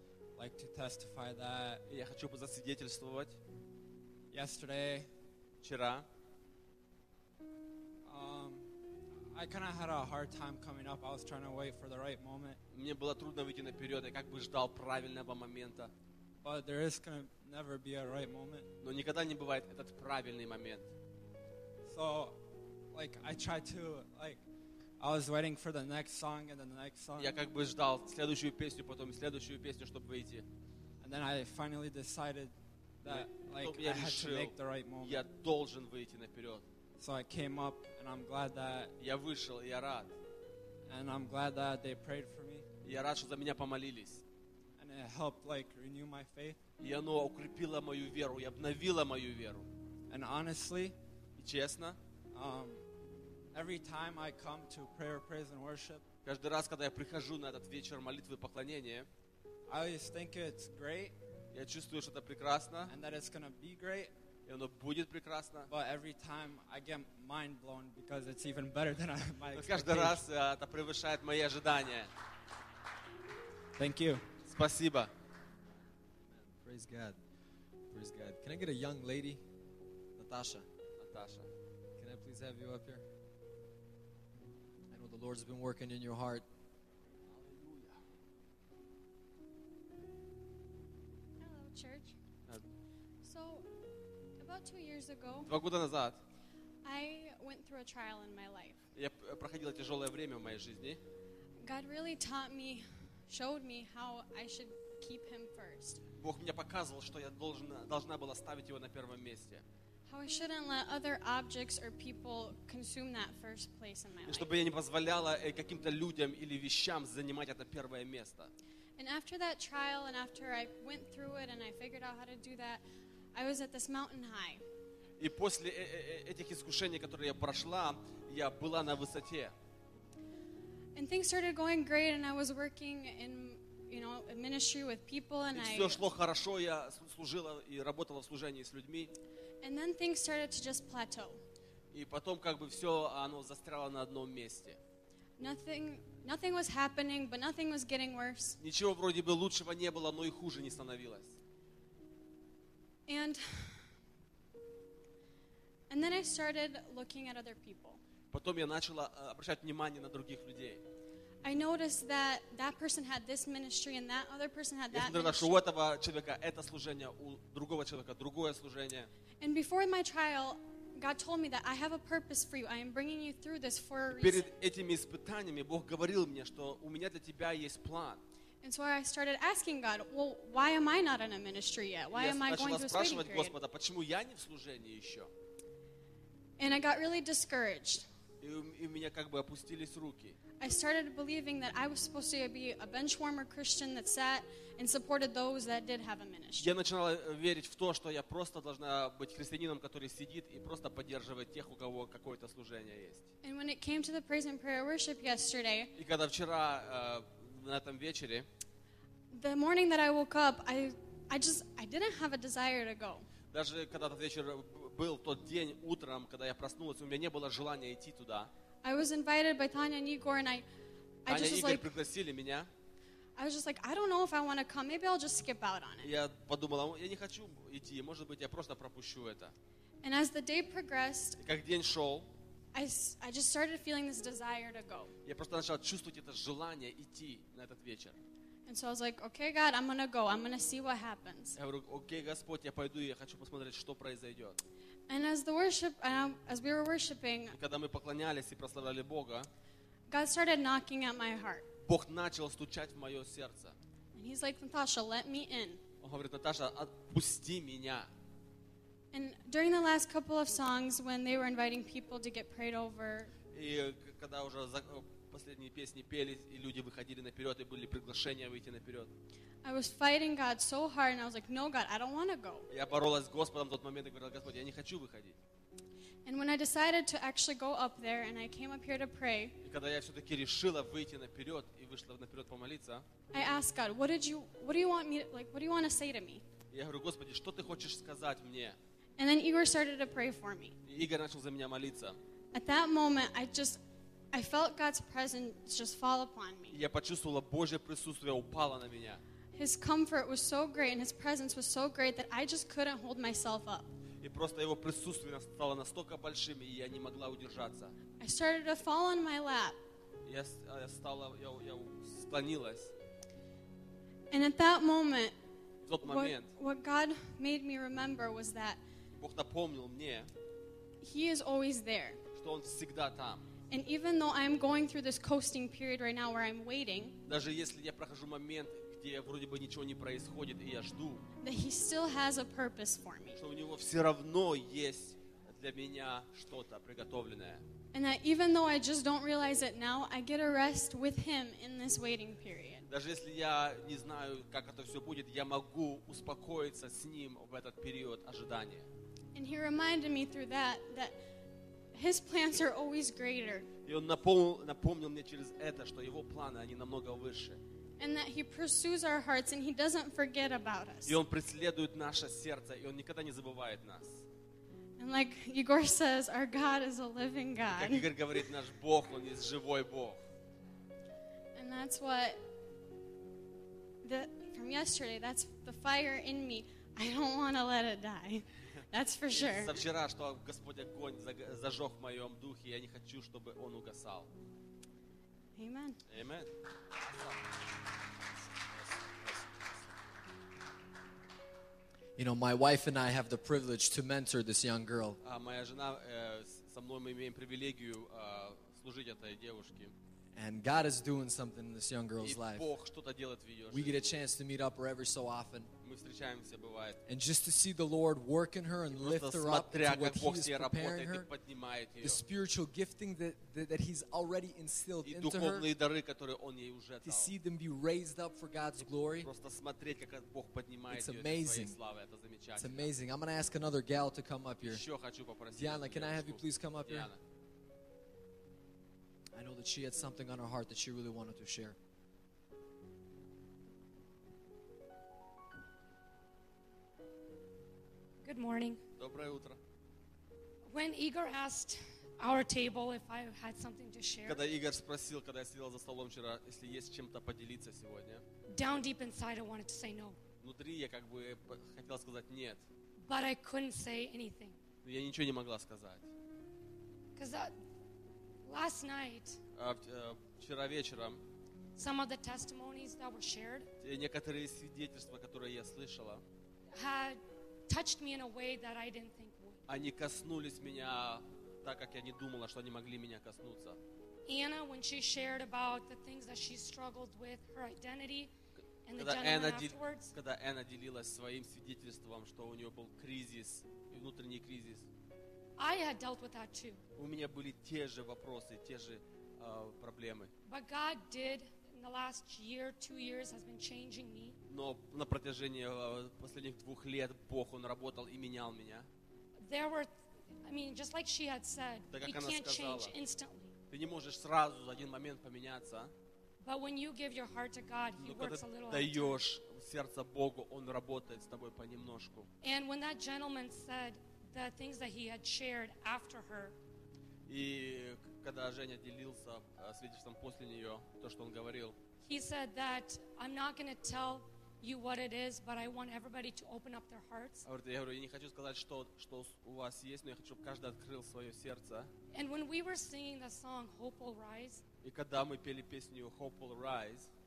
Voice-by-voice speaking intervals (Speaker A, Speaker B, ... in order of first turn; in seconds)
Speaker A: 0.3-1.8, 4.3-5.1, 8.0-8.7, 9.3-12.6, 16.4-18.7, 21.9-22.4, 22.9-24.4, 25.0-27.4, 31.0-35.2, 37.0-38.9, 40.9-42.6, 44.8-46.6, 50.1-51.0, 52.3-52.8, 53.5-56.0, 59.7-61.1, 62.9-64.1, 65.7-70.2, 73.8-74.2
Speaker B: 1.9-3.4, 5.6-6.0, 12.7-15.9, 18.8-20.9, 27.2-30.4, 33.1-36.6, 39.0-40.1, 42.8-44.2, 46.8-49.7, 51.4-52.0, 56.2-59.1, 61.5-62.9, 64.5-65.7, 69.5-72.1, 74.5-75.1, 81.0-81.5, 87.3-88.0, 95.5-96.2, 98.9-101.0, 106.2-109.6, 114.2-118.5, 125.2-129.5, 135.5-139.1, 141.9-144.8, 148.6-151.3, 158.3-160.8, 164.9-169.1, 174.1-178.2, 182.1-185.3, 188.4-190.4, 196.6-203.2, 206.0-208.4, 213.5-218.5, 221.3-222.7, 226.0-229.5, 231.4-232.3, 235.2-238.2, 241.6-244.6, 247.5-249.5, 251.8-253.8, 256.0-258.1, 263.5-269.1, 272.7-275.4, 279.6-283.0, 286.7-288.8, 290.9-292.2, 296.7-299.2, 304.2-307.9, 310.2-312.9, 315.8-316.5, 319.2-320.3, 322.4-323.4, 327.2-331.2, 333.4-337.6, 342.9-348.9, 353.8-357.6, 361.0-364.2, 367.7-370.2, 379.3-384.3, 386.1-386.5, 395.2-399.9, 402.2-404.0, 405.8-407.0, 408.9-412.2, 415.0-417.3, 419.2-422.9, 424.6-427.2, 439.0-439.6, 444.2-448.2, 450.4-452.6, 454.8-456.1, 459.5-461.2, 463.8-466.2, 469.7-473.8, 478.9-484.9, 486.9-490.3, 494.5-498.9, 501.9-502.9, 503.7-505.9, 508.0-512.3, 517.3-521.8, 527.4-531.9, 534.8-537.1
Speaker C: 76.3-77.2, 77.9-79.4, 80.2-80.7, 82.0-83.0, 84.9-86.4, 392.2-395.2, 400.3-402.7, 403.7-405.7, 407.1-411.3, 412.0-415.7, 417.0-419.3, 420.9-421.8, 422.6-424.8, 425.6-427.1, 429.4-431.8
Speaker D: 91.4-92.2, 93.2-93.7, 94.4-95.5, 96.8-98.8, 101.6-106.0, 110.1-114.5, 119.0-122.8, 123.3-124.6, 130.9-136.0, 139.6-141.4, 145.4-148.6, 153.1-153.9, 155.9-158.0, 161.4-165.6, 169.4-174.5, 178.6-183.5, 186.6-188.0, 190.6-196.7, 203.4-205.9, 209.3-213.3, 218.8-220.7, 221.2-221.9, 223.3-226.1, 230.0-231.4, 232.7-235.1, 238.7-241.6, 245.1-247.6, 250.1-251.7, 254.1-255.8, 259.1-263.3, 269.6-272.6, 276.2-279.6, 283.3-286.4, 289.2-290.8, 292.5-293.8, 294.3-296.8, 299.5-303.9, 308.2-309.8, 314.3-315.3, 316.0-318.8, 321.0-322.2, 323.7-327.2, 331.4-333.4, 337.9-342.9, 349.3-351.2, 351.9-353.7, 358.0-361.1, 365.0-368.1, 371.5-372.4, 374.0-379.8, 385.6-386.0
Speaker E: 438.2-438.8, 440.7-444.4, 448.5-450.2, 453.0-454.6, 457.1-457.5, 458.4-459.4, 461.8-463.7, 466.7-469.6, 474.2-478.3, 478.8-480.1, 485.6-486.8, 490.4-494.4, 499.4-499.9, 500.4-503.5, 506.4-509.2, 512.4-516.5, 522.0-527.5, 532.1-534.6